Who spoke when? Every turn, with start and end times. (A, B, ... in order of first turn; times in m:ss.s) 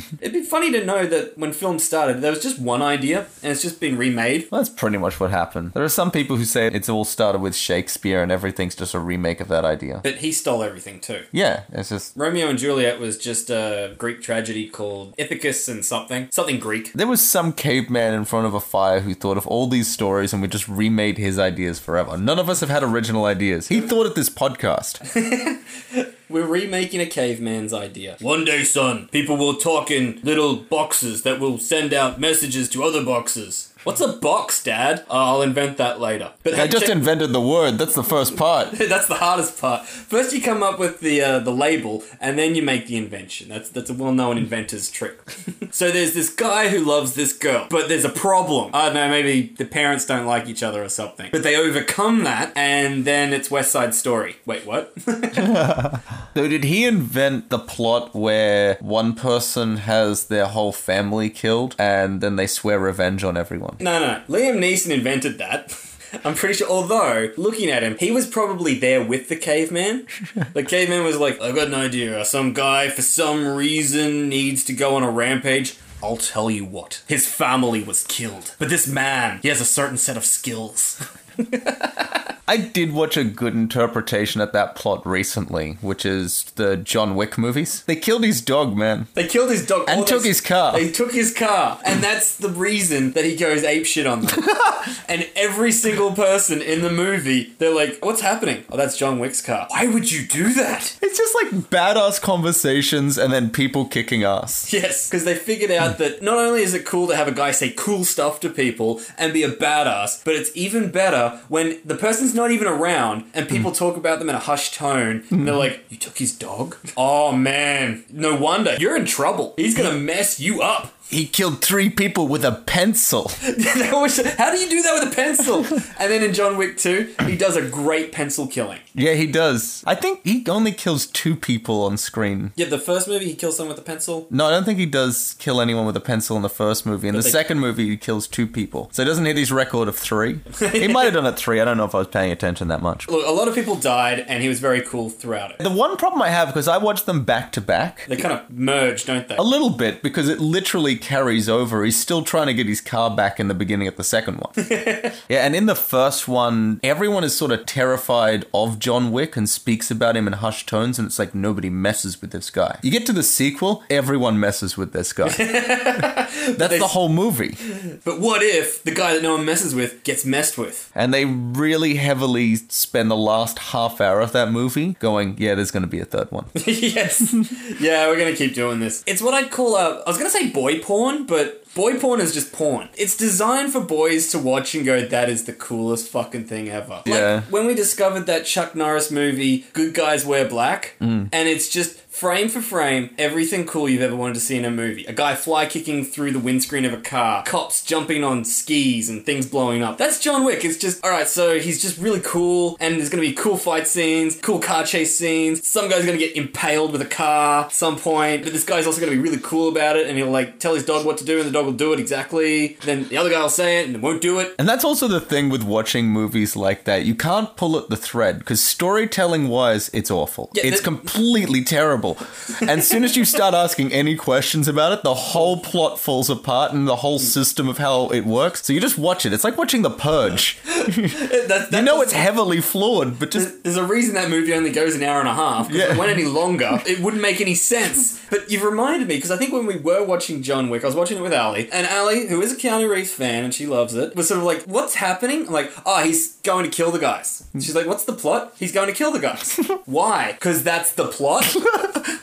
0:00.2-0:04.5 A
0:04.5-0:10.0 B
0:10.0-0:11.3 A
0:11.3-0:12.1 B
0:12.2-0:17.0 A
0:17.0-0:25.0 B
0:25.0-0:37.0 A
0:36.5-0:38.8 B
0:38.7-0:55.7 A
0:55.4-1:03.8 B
1:03.8-1:22.0 A
1:22.5-1:29.1 B
1:29.2-1:41.0 A
1:29.9-1:30.9 B
1:34.4-1:34.8 B
1:41.0-1:44.7 B
1:44.7-2:01.0 A
2:01.1-2:03.4 B
2:03.4-2:08.8 A
2:09.0-2:12.5 B
2:12.6-2:14.3 A
2:14.3-2:23.1 B
2:17.1-2:17.4 A
2:20.5-2:21.1 A
2:23.1-2:25.6 A
2:25.6-2:28.1 B
2:28.1-2:29.4 A
2:29.4-2:34.6 B
2:34.6-2:35.2 A
2:35.3-2:46.0 B
2:45.2-2:46.9 A
2:46.6-2:47.6 B
2:47.8-2:50.9 A
2:51.0-2:56.5 B
2:56.6-3:34.6 A
3:07.0-3:07.5 B
3:11.0-3:11.3 B
3:34.6-3:53.5 B
3:40.5-3:41.0 A
3:50.7-3:52.3 A
3:53.3-4:12.0 A
3:55.7-3:56.2 B